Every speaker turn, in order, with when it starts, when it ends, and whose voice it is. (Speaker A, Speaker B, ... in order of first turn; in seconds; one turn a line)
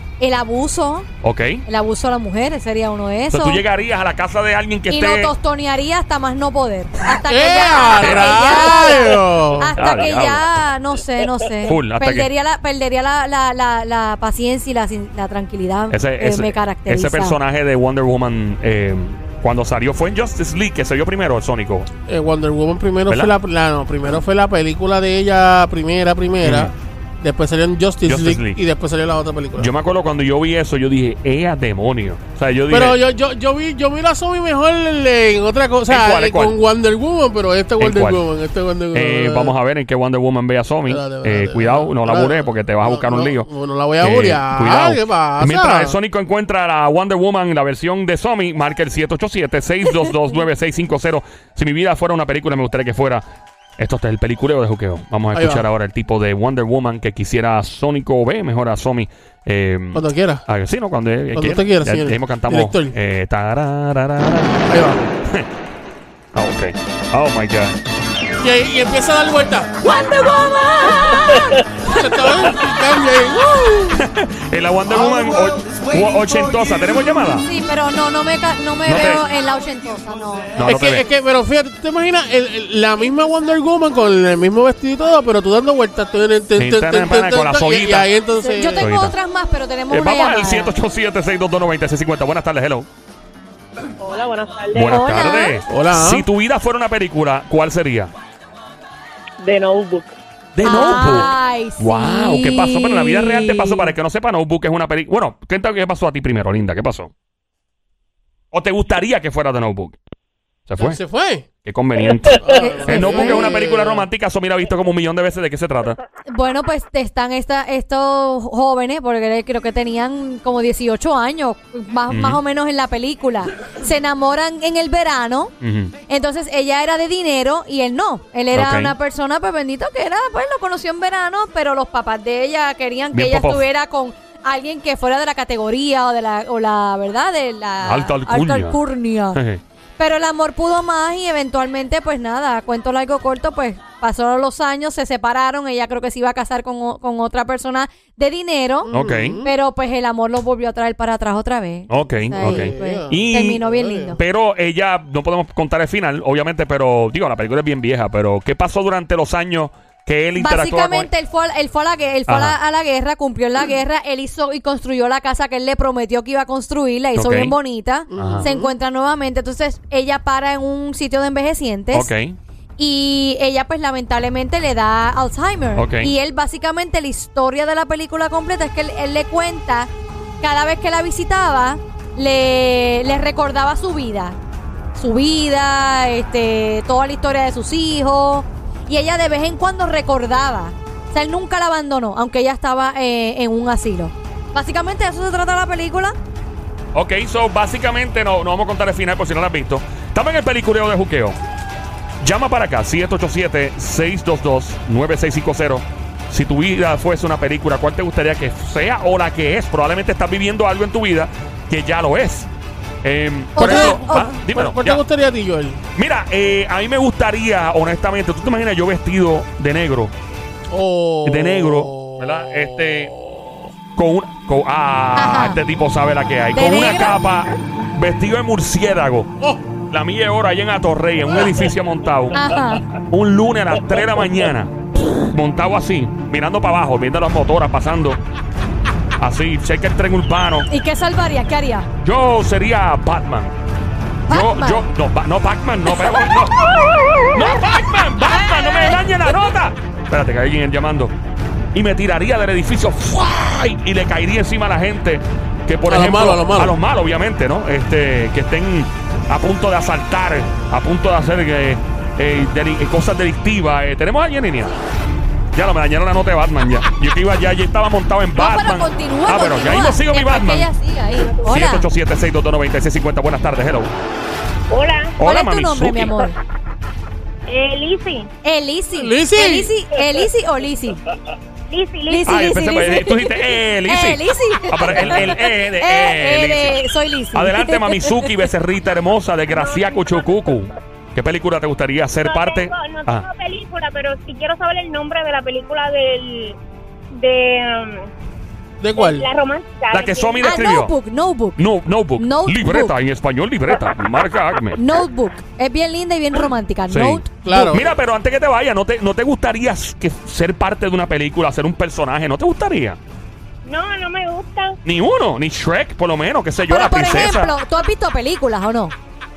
Speaker A: 0.2-1.1
Speaker B: 1.2-1.6
Speaker A: 1.7-3.6
Speaker B: 3.3-5.3
Speaker A: 4.9-17.4
Speaker C: 7.2-9.8
Speaker B: 8.0-9.0
Speaker B: 9.8-10.6
Speaker B: 11.7-12.3
Speaker B: 15.9-21.9
Speaker C: 22.1-29.7
Speaker B: 23.1-23.3
Speaker B: 26.4-26.7
Speaker B: 28.1-28.6
Speaker B: 29.6-33.0
Speaker C: 32.7-39.6
Speaker B: 35.9-36.6
Speaker B: 37.8-38.2
Speaker B: 38.9-43.5
Speaker C: 40.9-46.0
Speaker B: 44.0-53.2
Speaker B: 53.8-64.6
Speaker C: 55.3-55.7
Speaker C: 59.9-60.4
Speaker C: 61.3-63.0
Speaker C: 64.7-65.0
Speaker B: 66.3-67.8
Speaker C: 68.4-69.7
Speaker A: 69.8-72.4
Speaker C: 71.8-74.0
Speaker B: 73.9-77.5
Speaker A: 77.4-80.6
Speaker B: 78.9-79.2
Speaker B: 80.6-81.1
Speaker C: 80.6-88.9
Speaker B: 86.6-88.1
Speaker A: 88.4-90.8
Speaker B: 88.8-89.2
Speaker B: 89.9-92.9
Speaker D: 94.0-95.4
Speaker B: 94.7-98.1
Speaker A: 94.9-95.6
Speaker C: 95.7-96.3
Speaker D: 99.4-100.2
Speaker B: 100.5-107.1
Speaker A: 100.6-103.9
Speaker B: 108.5-110.0
Speaker B: 110.7-111.0
Speaker C: 110.8-111.5
Speaker B: 111.6-116.0
Speaker A: 112.5-113.5
Speaker C: 112.5-114.1
Speaker A: 116.3-125.5
Speaker B: 122.1-122.4
Speaker B: 125.6-125.9
Speaker A: 126.1-139.4
Speaker B: 128.5-128.9
Speaker B: 133.1-133.7
Speaker B: 137.8-138.8
Speaker B: 139.3-139.6
Speaker A: 140.0-154.2
Speaker C: 148.9-149.5
Speaker B: 148.9-149.4
Speaker B: 151.9-161.1
Speaker C: 152.3-154.2
Speaker A: 160.4-172.1
Speaker B: 162.3-162.6
Speaker B: 167.2-167.5
Speaker C: 168.1-168.7
Speaker B: 168.2-168.5
Speaker B: 171.9-172.4
Speaker A: 172.8-179.9
Speaker B: 175.8-176.1
Speaker A: 180.4-184.4
Speaker A: 184.9-196.1
Speaker B: 196.9-201.4
Speaker B: 202.2-212.5
Speaker B: 213.0-215.0
Speaker A: 213.6-214.3
Speaker C: 213.6-215.8
Speaker B: 215.9-220.1
Speaker C: 220.7-223.7
Speaker B: 221.2-223.1
Speaker B: 223.9-229.3
Speaker A: 225.2-225.6
Speaker A: 226.5-227.2
Speaker B: 229.9-232.4
Speaker A: 232.3-232.9
Speaker B: 233.0-238.2
Speaker B: 239.2-240.7
Speaker A: 240.7-241.9
Speaker B: 242.0-243.6
Speaker A: 244.3-244.9
Speaker B: 244.3-246.6
Speaker B: 247.3-251.1
Speaker A: 248.2-249.1
Speaker B: 251.7-264.8
Speaker C: 255.9-256.8
Speaker B: 265.5-270.7
Speaker A: 268.4-271.9
Speaker B: 271.5-273.9
Speaker D: 274.7-275.2
Speaker B: 275.2-276.2
Speaker A: 275.2-276.4
Speaker D: 277.5-278.3
Speaker A: 278.4-281.0
Speaker C: 278.9-279.7
Speaker D: 281.7-282.4
Speaker A: 282.1-288.4
Speaker B: 282.3-286.8
Speaker B: 287.3-293.3
Speaker D: 289.5-290.4
Speaker D: 292.2-296.6
Speaker D: 297.1-298.1
Speaker C: 298.8-299.3
Speaker D: 299.0-300.6
Speaker B: 299.9-300.9
Speaker A: 300.4-301.6
Speaker B: 301.6-304.8
Speaker A: 302.2-302.9
Speaker A: 304.8-307.8
Speaker B: 306.9-313.0
Speaker C: 307.4-307.9
Speaker D: 313.6-314.8
Speaker B: 314.9-317.5
Speaker A: 316.7-318.9